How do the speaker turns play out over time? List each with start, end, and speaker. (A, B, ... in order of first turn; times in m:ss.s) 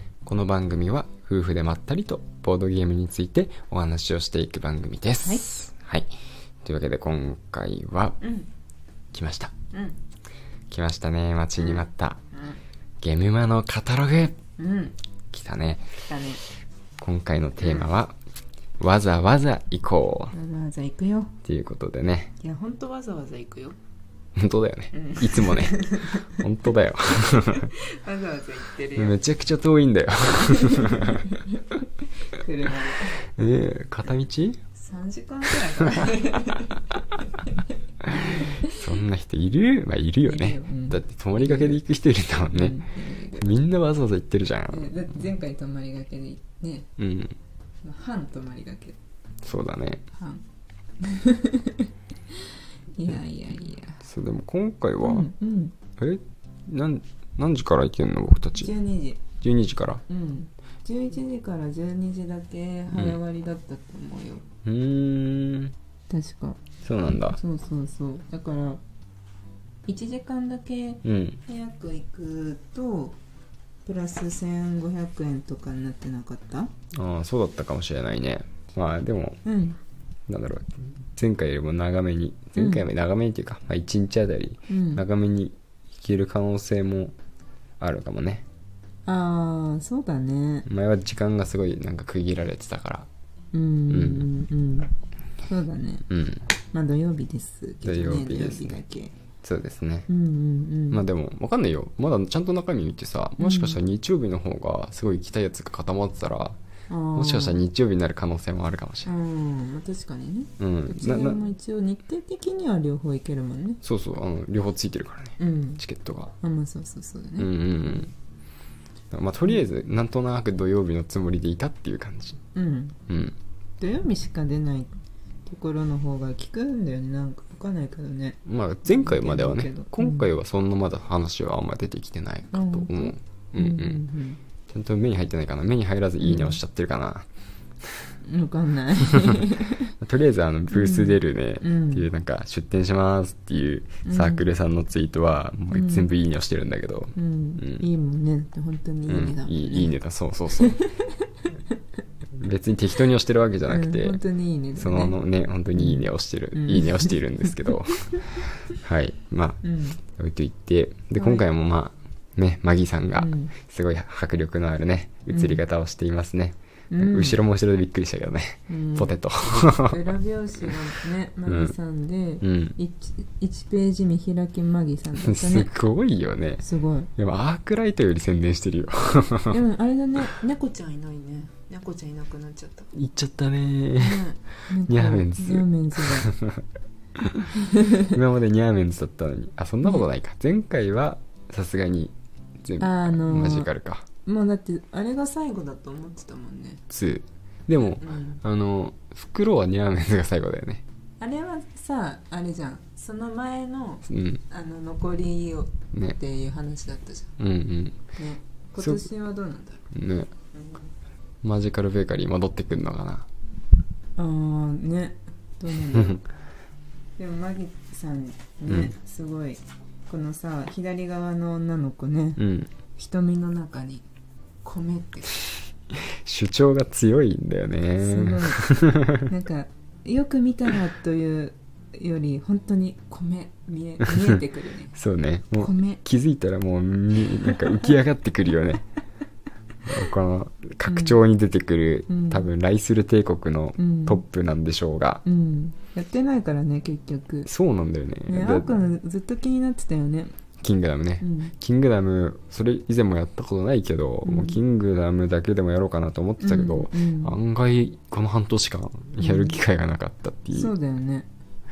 0:00.2-0:06.1 A
0:06.6-0:08.2 A
0:08.2-0:08.5 B
0:09.1-0:09.5 A
0:09.7-0:10.0 B
0:10.7-0:12.2 A
0:11.6-0:12.6 B
0:13.0-0:14.4 A
0:14.6-0:14.9 B
0:15.3-0:15.9 A
0:16.0-0:16.4 B
0:17.0-0:18.2 A
0:17.6-0:17.9 B
0:18.8-0:20.3 A
0:20.3-0:21.3 B
0:21.4-0:22.3 A
0:22.4-0:23.8 B
0:24.4-0:27.7 A
0:24.9-0:26.4 B
0:27.3-0:29.2 B
0:29.0-0:31.2 A
0:30.4-0:33.2 B
0:33.4-0:34.6 A
0:34.7-0:38.8 B
0:35.8-0:36.1 A
0:38.2-0:42.8 A
0:40.2-0:41.8 B
0:42.4-0:43.6 B
0:43.4-0:44.9 A
0:44.7-0:46.9 B
0:47.0-0:47.4 A
0:47.8-0:49.0 B
0:49.4-0:50.0 A
0:50.1-0:50.4 B
0:51.0-0:54.0 B
0:54.0-0:55.3 A
0:55.0-0:55.7 B
0:56.0-0:58.7 A
0:58.6-0:59.2 B
0:59.4-1:00.0 A
1:00.1-1:04.4 B
1:02.9-1:03.2 A
1:04.6-1:05.7 A
1:06.1-1:06.6 B
1:06.8-1:07.4 A
1:07.2-1:08.8 B
1:09.8-1:13.2 B
1:11.0-1:11.4 A
1:13.8-1:16.7 B
1:16.9-1:19.4 A
1:19.4-1:19.8 B
1:20.3-1:27.1 A
1:22.5-1:22.8 B
1:24.7-1:25.0 B
1:27.8-1:28.4 A
1:29.0-1:30.7 B
1:30.6-1:33.1 A
1:33.5-1:34.9 B
1:33.9-1:34.3 A
1:35.4-1:36.0 B
1:36.1-1:36.4 A
1:36.7-1:39.1 B
1:37.8-1:38.8 A
1:39.4-1:40.1 A
1:40.1-1:41.0 B
1:40.9-1:46.6 A
1:43.4-1:43.8 B
1:46.9-1:47.6 B
1:47.1-1:49.1 A
1:49.0-1:53.8 B
1:50.6-1:51.4 A
1:53.8-1:56.3 A
1:55.4-1:55.8 B
1:56.4-1:58.1 B
1:57.4-1:58.1 A
1:59.1-2:02.4 A
2:02.5-2:03.0 B
2:03.1-2:03.4 A
2:03.8-2:04.9 B
2:05.4-2:10.3 B
2:08.4-2:14.0 A
2:12.5-2:14.4 B
2:14.7-2:17.2 A
2:16.2-2:16.6 B
2:18.2-2:19.9 B
2:20.0-2:27.8 A
2:20.7-2:22.1 B
2:24.0-2:24.4 B
2:25.7-2:26.1 B
2:27.1-2:29.9 B
2:29.1-2:30.8 A
2:30.6-2:31.5 B
2:32.4-2:34.2 A
2:33.7-2:35.2 B
2:34.8-2:37.9 A
2:35.7-2:38.2 B
2:38.7-2:39.6 A
2:39.6-2:40.0 B
2:40.1-2:50.0 A
2:41.2-2:41.4 B
2:43.2-2:43.5 B
2:45.3-2:45.6 B
2:46.9-2:47.4 B
2:48.7-2:55.7 B
2:51.4-2:51.7 A
2:52.4-2:52.8 A
2:55.1-2:56.6 A
2:56.6-2:57.1 B
2:57.2-2:59.6 A
2:59.5-3:02.9 B
3:02.9-3:04.2 A
3:04.0-3:06.3 B
3:04.8-3:06.6 A
3:07.2-3:07.5 A
3:07.6-3:08.2 B
3:08.1-3:14.0 A
3:12.8-3:13.7 B
3:14.2-3:16.8 B
3:16.9-3:20.8 A
3:17.8-3:18.4 B
3:21.2-3:27.3 B
3:24.1-3:24.4 A
3:27.4-3:28.0 A
3:28.2-3:29.8 B
3:28.8-3:29.1 A
3:29.9-3:30.3 A
3:30.5-3:30.8 B
3:31.4-3:33.2 A
3:34.2-3:36.2 B
3:35.9-3:36.2 A
3:37.2-3:42.4 B
3:38.7-3:38.9 A
3:42.4-3:42.7 A
3:42.9-3:44.0 B
3:44.6-3:45.4 B
3:46.0-3:49.2 A
3:48.0-3:54.9 B
3:54.0-3:54.4 A
3:54.9-3:58.8 A
3:55.6-3:56.0 B
3:57.3-3:57.9 B
3:59.8-4:05.2 A
4:00.8-4:01.2 B
4:02.1-4:02.5 B
4:03.8-4:04.2 B
4:05.2-4:07.5 B
4:07.4-4:08.7 A
4:08.3-4:10.4 B
4:10.6-4:20.7 A
4:11.2-4:11.5 B
4:14.2-4:14.6 B
4:16.4-4:17.4 B
4:19.2-4:19.6 B
4:20.5-4:21.3 B